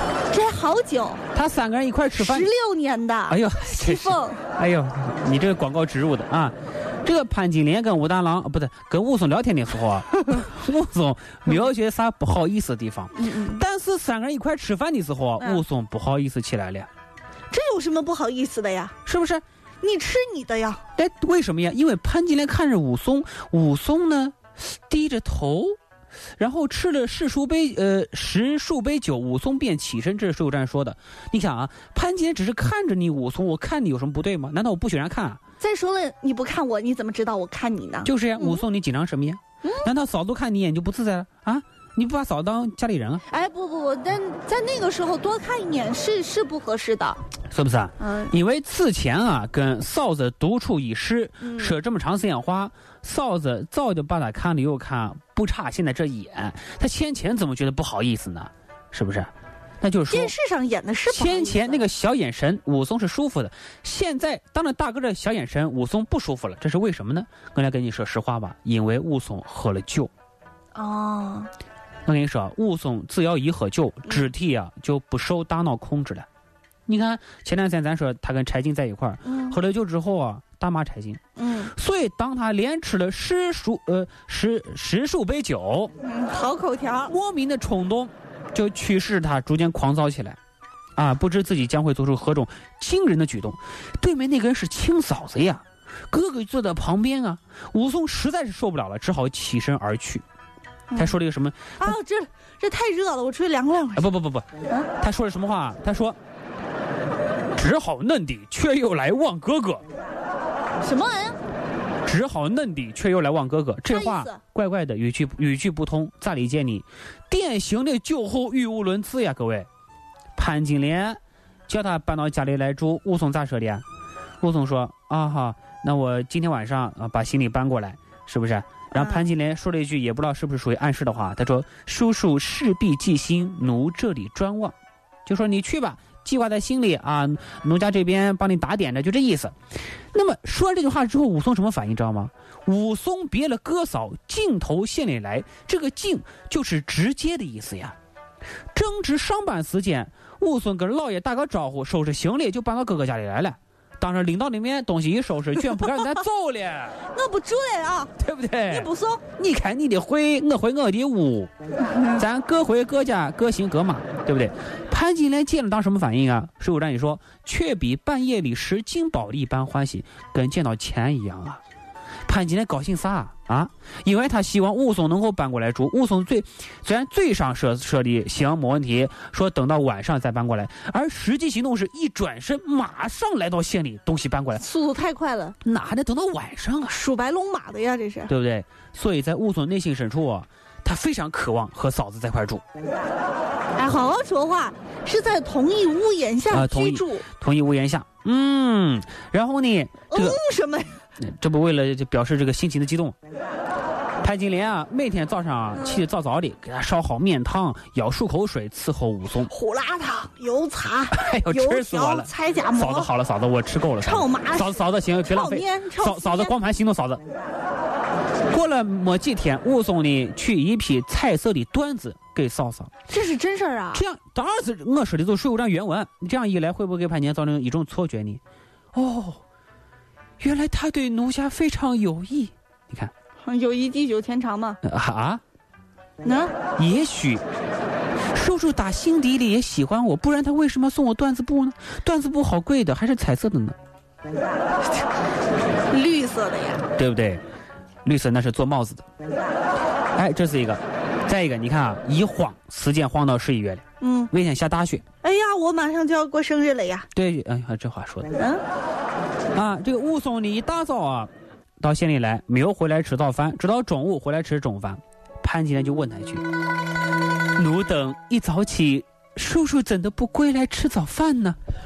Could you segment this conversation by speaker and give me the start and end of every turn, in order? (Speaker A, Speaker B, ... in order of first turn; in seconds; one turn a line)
Speaker A: 0.3-1.2
Speaker B: 1.3-2.5
Speaker A: 2.1-4.4
Speaker B: 3.3-16.9
Speaker A: 13.2-13.6
Speaker A: 17.5-18.9
Speaker B: 19.1-19.4
Speaker A: 19.8-20.8
Speaker B: 21.0-25.8
Speaker B: 26.4-35.4
Speaker A: 35.6-38.6
Speaker B: 38.0-43.2
Speaker A: 39.6-39.9
Speaker A: 43.3-47.2
Speaker B: 47.5-60.3
Speaker A: 48.0-48.3
Speaker A: 51.4-51.7
Speaker A: 60.1-61.9
Speaker B: 61.1-70.1
Speaker A: 70.7-71.5
Speaker B: 72.0-76.3
Speaker B: 76.9-81.2
Speaker A: 79.2-79.6
Speaker A: 81.4-81.7
Speaker B: 81.7-85.9
Speaker A: 86.0-87.1
Speaker B: 87.1-90.4
Speaker B: 91.0-100.2
Speaker B: 101.0-102.0
Speaker A: 101.8-104.1
Speaker B: 104.0-104.5
Speaker B: 105.0-106.2
Speaker B: 107.5-109.8
Speaker A: 110.8-111.4
Speaker B: 112.0-119.7
Speaker A: 113.9-114.4
Speaker B: 120.3-123.8
Speaker B: 124.4-139.5
Speaker A: 128.9-129.3
Speaker B: 140.1-147.9
Speaker B: 148.7-157.0
Speaker A: 157.1-158.1
Speaker B: 158.2-161.5
Speaker A: 158.7-159.2
Speaker B: 162.0-171.6
Speaker B: 172.3-184.6
Speaker A: 184.5-185.6
Speaker B: 185.6-187.0
Speaker A: 186.9-188.3
Speaker B: 188.3-192.6
Speaker A: 193.7-197.2
Speaker B: 196.5-200.4
Speaker A: 200.1-201.0
Speaker B: 201.2-203.2
Speaker B: 204.2-209.5
Speaker A: 209.5-213.1
Speaker B: 211.1-217.2
Speaker A: 214.0-216.5
Speaker B: 218.5-222.9
Speaker A: 223.1-224.0
Speaker B: 223.9-228.4
Speaker B: 228.9-229.4
Speaker B: 230.4-233.1
Speaker A: 233.4-234.8
Speaker B: 234.8-235.4
Speaker A: 236.2-236.6
Speaker B: 236.8-237.4
Speaker B: 238.3-243.8
Speaker A: 245.9-246.8
Speaker B: 246.9-247.4
Speaker B: 248.0-249.0
Speaker B: 250.1-255.0
Speaker A: 254.0-254.3
Speaker A: 255.2-257.1
Speaker B: 257.1-258.3
Speaker A: 258.3-258.6
Speaker B: 259.5-266.4
Speaker B: 267.6-271.6